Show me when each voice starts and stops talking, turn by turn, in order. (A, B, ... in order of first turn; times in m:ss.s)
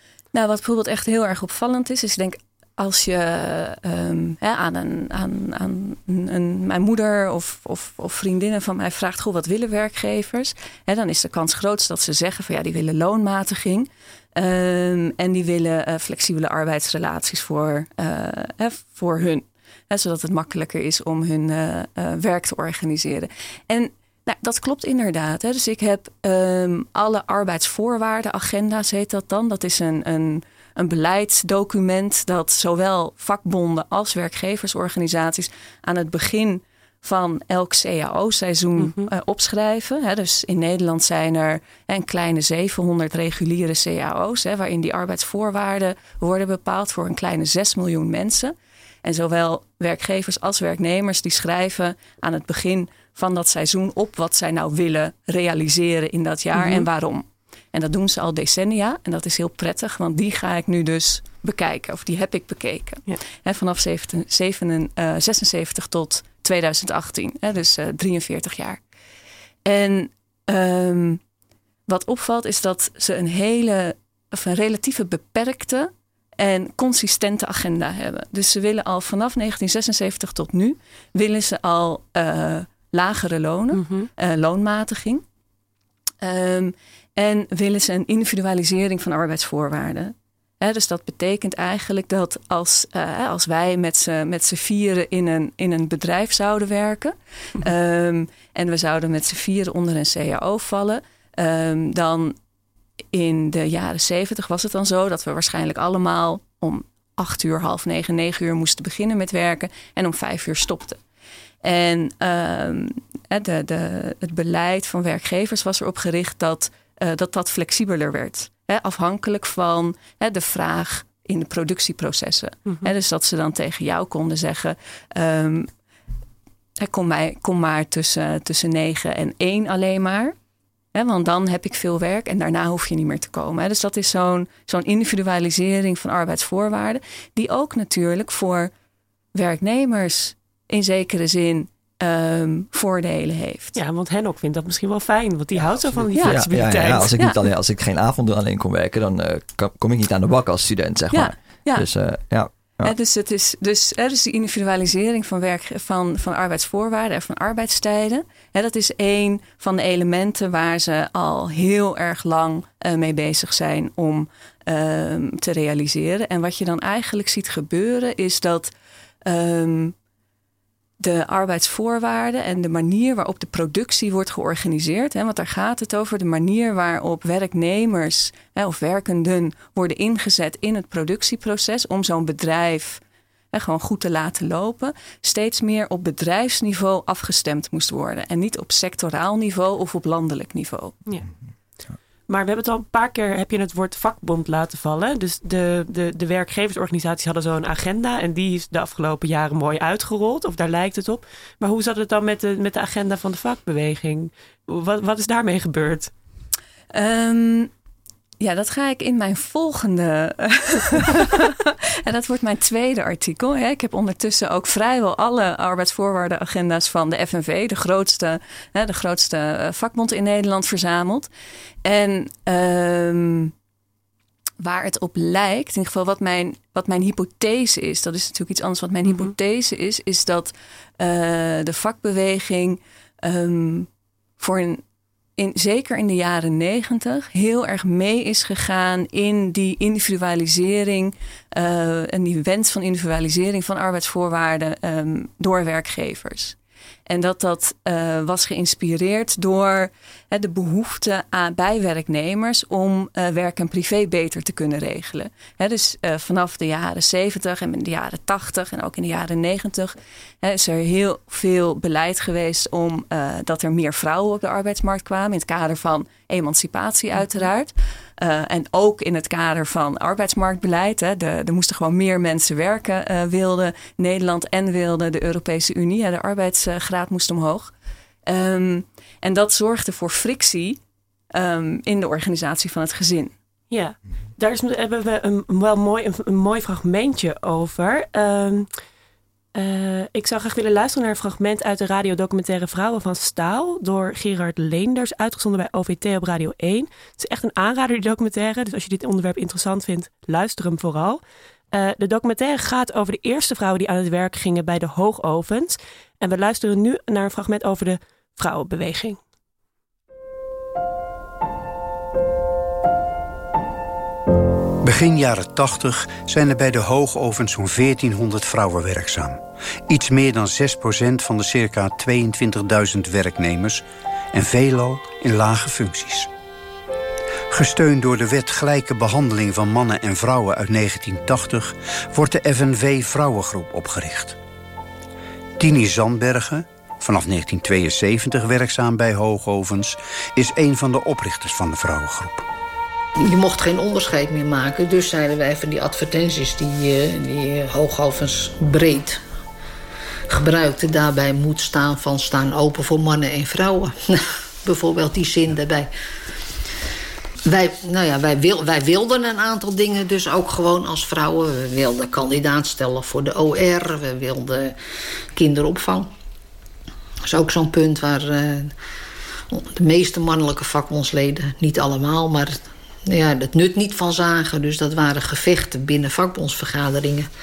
0:00.3-1:08.8 A
0:38.8-0:39.1 B
0:56.6-0:56.8 B
1:09.6-1:11.2 A
1:11.9-1:25.2 A
1:23.7-1:24.1 B
1:26.2-1:42.3 A
1:43.1-1:51.0 A
1:51.6-2:05.7 A
2:06.8-2:10.3 A
2:10.9-2:18.7 A
2:19.3-2:23.8 A
2:23.8-2:27.1 B
2:26.2-2:27.4 A
2:26.2-2:32.9 C
2:31.1-2:31.9 A
2:32.8-2:48.7 A
2:49.3-2:49.9 A
2:51.0-3:03.0 A
3:03.5-3:10.9 A
3:12.3-3:26.1 B
3:26.9-3:27.7 A
3:28.4-3:41.3 A
3:41.8-3:43.5 A
3:44.6-3:53.9 A
3:54.4-3:54.8 A
3:55.4-4:06.6 A
4:07.1-4:37.7 A
4:38.3-4:40.8 A
4:41.3-4:43.3 A
4:43.7-4:48.7 B
4:49.6-5:01.2 B
5:01.7-5:09.2 B
5:14.8-5:26.3 D
5:27.5-5:34.4 D
5:35.6-5:42.4 D
5:43.2-5:49.2 E
5:50.3-5:55.9 E
5:57.4-6:04.8 E
6:05.3-6:06.1 E
6:07.2-6:08.7 E
6:09.5-6:17.3 E